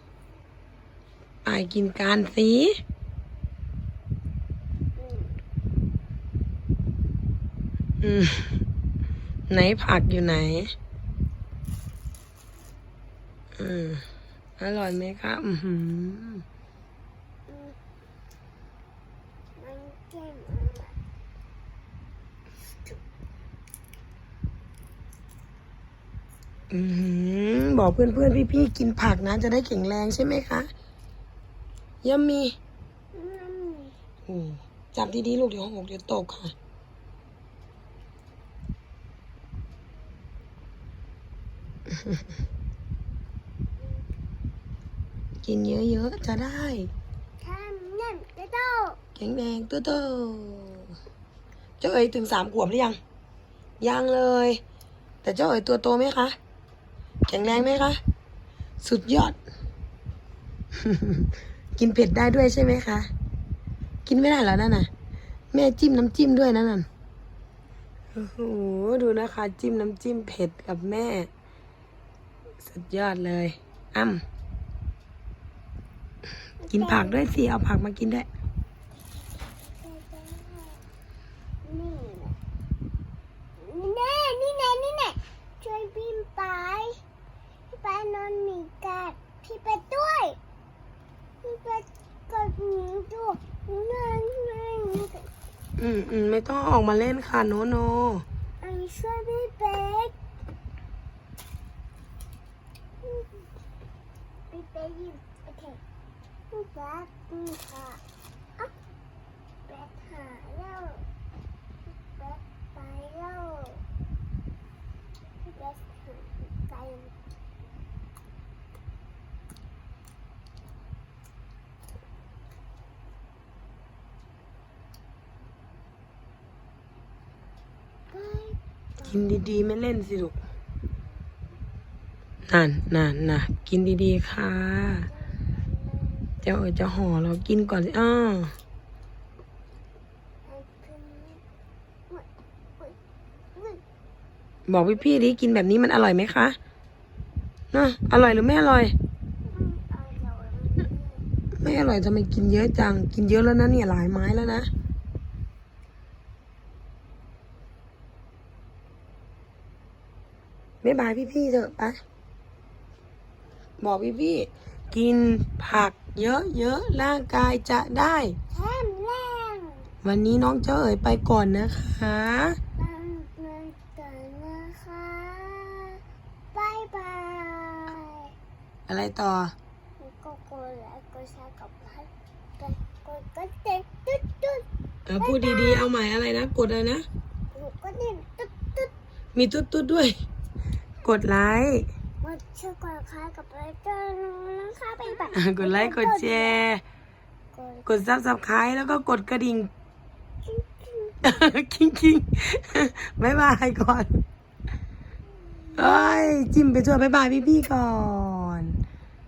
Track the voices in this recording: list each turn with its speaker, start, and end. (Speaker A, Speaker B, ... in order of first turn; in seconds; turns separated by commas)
Speaker A: 1.4-2.8, Speaker B: 5.0-5.4, Speaker A: 8.0-8.6, Speaker A: 9.5-10.7, Speaker A: 13.6-14.0, Speaker A: 14.6-16.4, Speaker B: 17.5-17.8, Speaker B: 19.6-21.0, Speaker A: 26.7-30.7, Speaker A: 32.0-32.5, Speaker B: 33.1-33.9, Speaker A: 34.3-36.5, Speaker A: 45.4-46.9, Speaker B: 47.4-49.0, Speaker A: 49.2-50.9, Speaker A: 51.8-53.0, Speaker A: 53.8-54.6, Speaker A: 55.2-56.4, Speaker A: 57.3-58.0, Speaker A: 58.8-59.4, Speaker A: 60.8-63.1, Speaker A: 64.0-64.9, Speaker A: 65.5-66.8, Speaker A: 68.1-71.3, Speaker A: 72.6-74.2, Speaker B: 76.6-77.2, Speaker A: 76.7-78.3, Speaker B: 79.0-80.8, Speaker B: 81.6-82.4, Speaker B: 83.6-87.0, Speaker B: 87.7-90.4, Speaker B: 91.4-95.3, Speaker A: 95.8-98.2, Speaker B: 98.6-100.1, Speaker B: 103.0-103.4, Speaker B: 104.5-105.8, Speaker B: 106.5-108.0, Speaker B: 109.7-111.0, Speaker B: 112.1-113.8, Speaker B: 115.5-117.1, Speaker B: 128.1-129.4, Speaker A: 129.1-130.4, Speaker A: 132.5-135.1, Speaker B: 135.1-136.3, Speaker A: 136.4-138.5, Speaker B: 140.4-141.4, Speaker B: 142.1-143.0, Speaker B: 143.5-143.8, Speaker A: 144.7-146.6, Speaker A: 147.7-148.9, Speaker B: 149.5-151.3, Speaker A: 151.6-154.7, Speaker A: 160.8-162.0, Speaker A: 163.8-168.4, Speaker B: 168.5-169.9, Speaker A: 170.0-172.6, Speaker B: 172.8-176.0, Speaker B: 176.5-178.3, Speaker A: 178.9-179.5, Speaker B: 180.0-184.7, Speaker A: 185.1-187.1, Speaker B: 185.2-185.9, Speaker B: 187.5-188.9, Speaker A: 189.3-190.1, Speaker A: 191.0-191.8, Speaker B: 192.2-196.7, Speaker A: 195.3-196.8, Speaker B: 197.5-197.9, Speaker A: 197.9-199.7, Speaker B: 200.4-201.2, Speaker A: 201.2-204.2, Speaker B: 205.7-206.3, Speaker A: 205.8-208.8